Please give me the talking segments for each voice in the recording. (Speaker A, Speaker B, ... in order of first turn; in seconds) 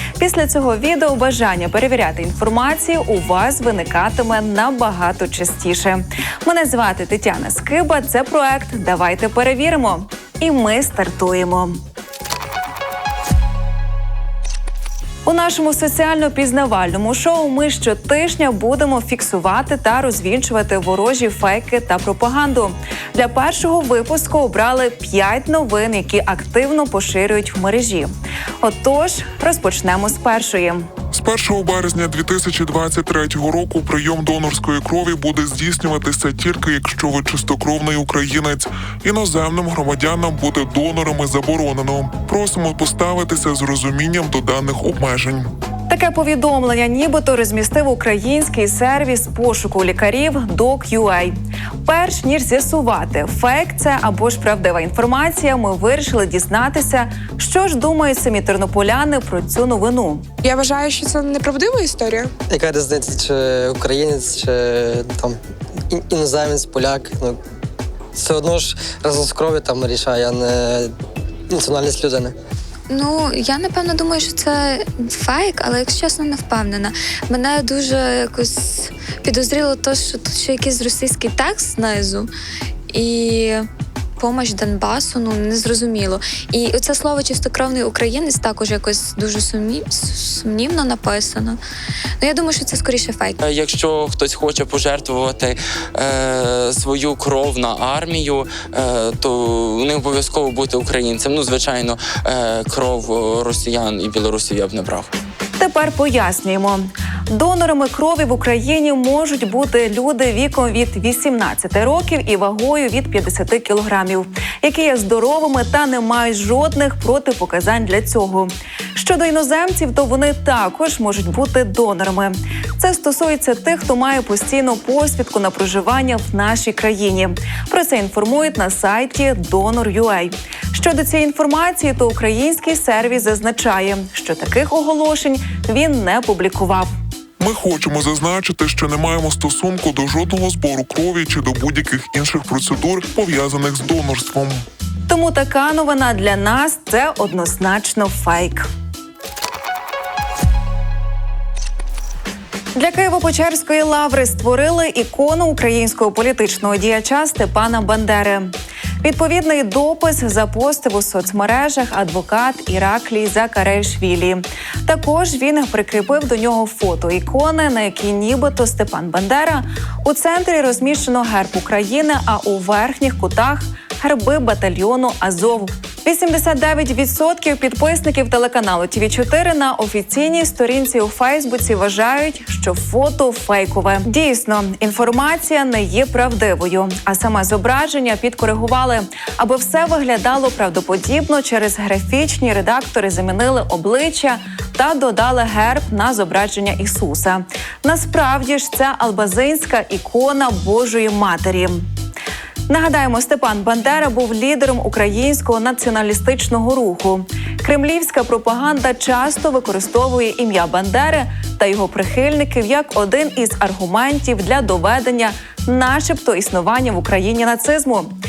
Speaker A: 0.2-11.8, 15.3-28.1, 28.6-30.9, 45.9-60.2, 105.6-136.9, 145.1-148.7, 152.8-201.9, 202.7-218.1
Speaker B: 31.1-45.5, 137.4-144.6
Speaker C: 60.4-62.4
Speaker D: 62.5-65.4, 65.9-67.4, 68.2-70.9, 71.5-72.3
Speaker E: 72.9-82.3, 82.9-83.7, 84.2-91.6, 92.2-93.4
Speaker F: 93.5-105.1